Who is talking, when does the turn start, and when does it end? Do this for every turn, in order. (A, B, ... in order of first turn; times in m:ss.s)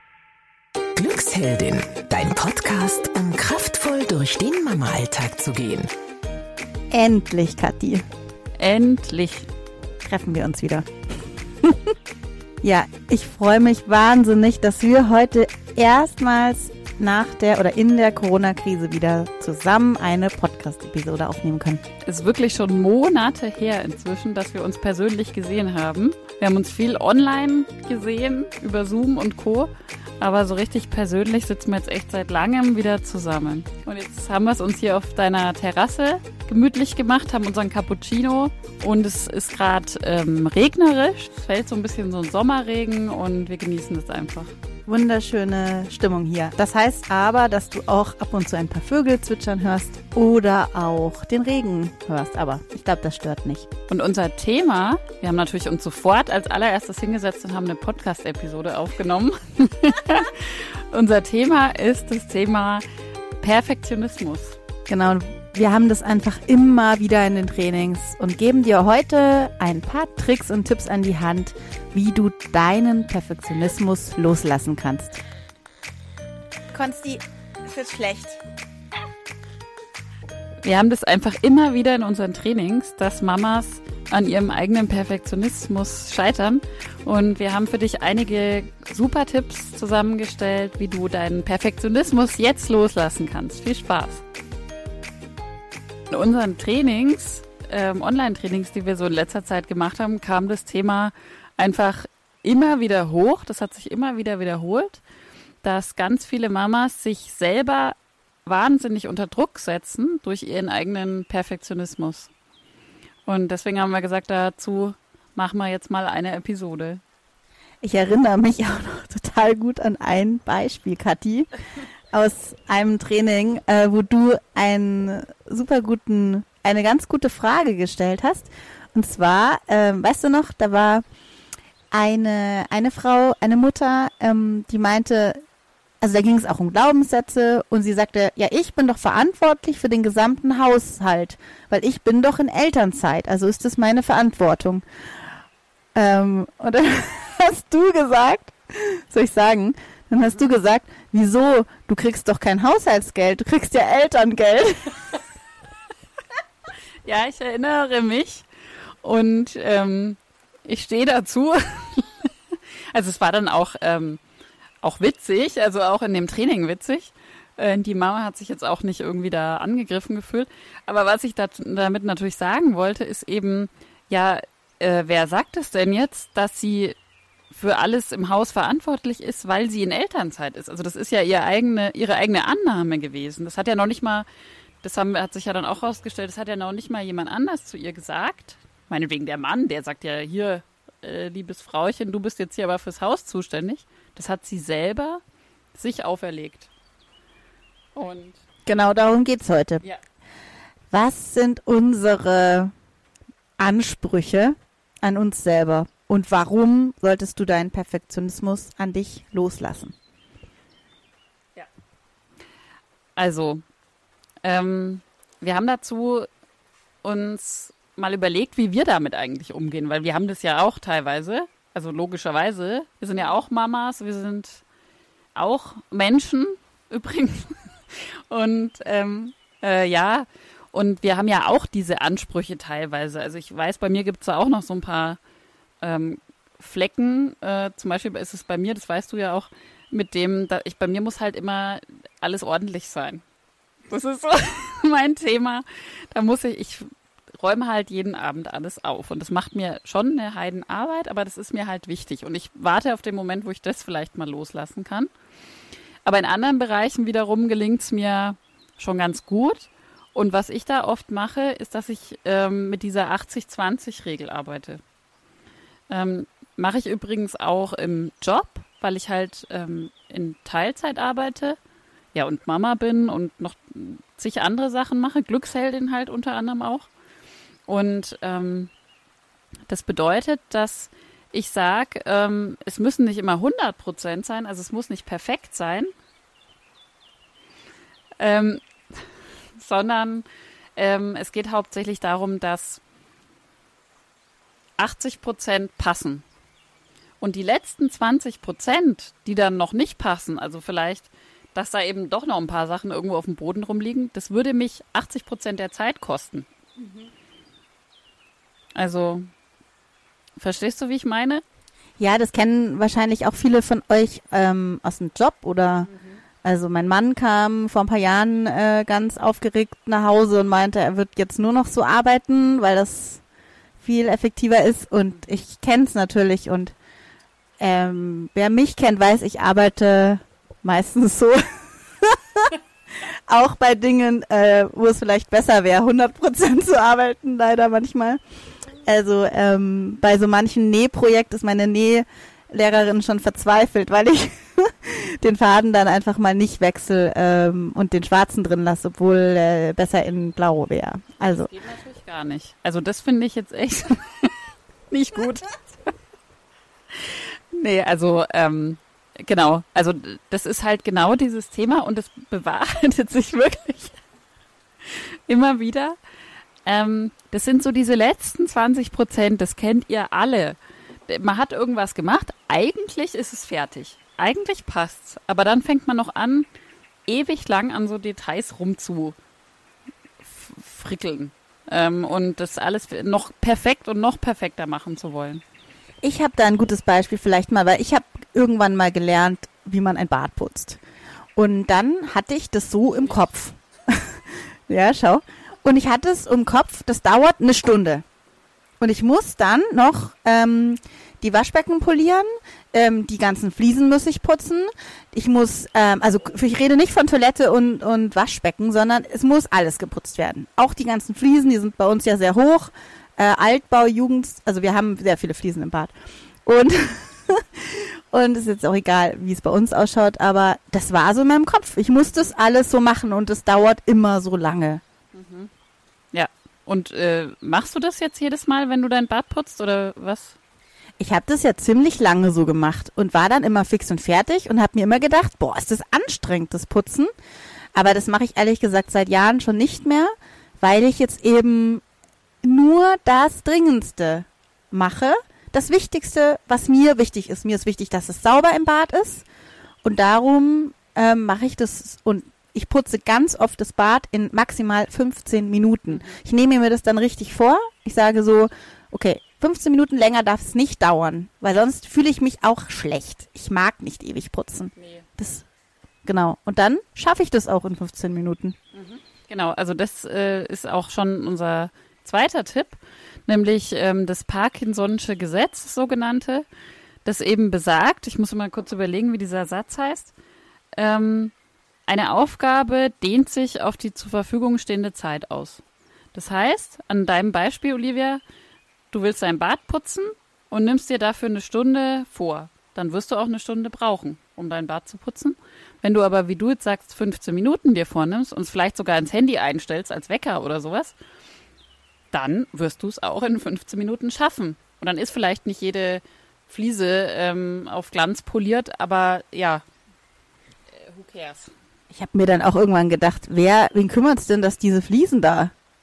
0:01.0-0:05.9 A
0:06.9-0:08.0 B
0:08.6-0:09.5 C
0:10.0-0:10.9 B
0:12.6-0:21.8 B
0:22.0-0:44.5 C
0:44.9-0:53.7 B
0:53.9-1:02.8 C
1:03.4-1:04.6 C
1:04.9-1:15.2 B
1:16.7-1:18.4 B
1:20.6-1:34.2 C
1:36.1-1:45.0 C
1:45.6-1:52.3 C
1:53.2-1:57.0 C
1:57.8-2:01.5 B
2:02.1-2:11.0 B
2:11.9-2:15.4 B
2:16.0-2:24.8 B
2:25.9-2:34.9 B
2:37.0-2:38.4 C
2:39.0-2:42.3 C
2:42.9-2:44.2 C
2:44.8-2:57.0 C
2:57.5-3:04.2 C
3:04.8-3:15.2 C
3:15.7-3:16.7 C
3:17.9-3:18.4 C
3:18.6-3:19.8 B
3:20.9-3:22.7 B
3:23.6-3:29.9 B
3:33.2-3:33.6 C
3:34.4-3:36.3 C
3:37.0-3:44.6 C
3:45.4-3:55.2 C
3:55.8-4:03.2 C
4:03.9-4:15.1 C
4:16.0-4:24.8 C
4:25.9-4:31.6 C
4:32.1-4:36.9 C
4:37.7-4:38.7 C
4:39.7-4:45.9 C
4:48.2-4:48.6 C
4:49.6-4:50.2 C
4:50.8-4:52.8 C
4:54.8-4:56.2 C
4:57.2-5:06.5 C
5:06.8-5:07.1 B
5:08.8-5:09.3 C
5:10.4-5:11.4 C
5:12.0-5:15.9 B
5:15.8-5:16.2 C
5:16.4-5:23.2 B
5:23.8-5:26.7 B
5:27.6-5:31.4 B
5:32.0-5:32.5 B
5:33.3-5:38.2 B
5:38.8-5:51.5 B
5:51.2-5:54.4 C
5:54.9-5:55.6 C
5:57.0-6:04.0 C
6:04.9-6:06.0 C
6:06.6-6:16.5 C
6:17.1-6:19.2 C
6:20.2-6:25.4 C
6:26.0-6:30.8 B
6:31.4-6:38.0 B
6:38.8-6:55.9 B
6:56.4-7:04.8 B
7:02.0-7:02.3 C
7:05.1-7:05.5 C
7:06.1-7:10.4 C
7:11.0-7:17.1 B
7:17.7-7:21.8 B
7:22.4-7:29.2 B
7:29.8-7:45.4 B
7:35.9-7:36.2 C
7:44.8-7:45.0 C
7:46.0-7:48.6 B
7:48.7-7:56.5 C
7:57.0-8:00.1 C
8:00.8-8:01.3 C
8:01.9-8:05.6 C
8:06.1-8:08.2 C
8:08.9-8:20.9 C
8:22.1-8:29.6 C
8:30.7-8:31.5 C
8:31.9-8:35.5 B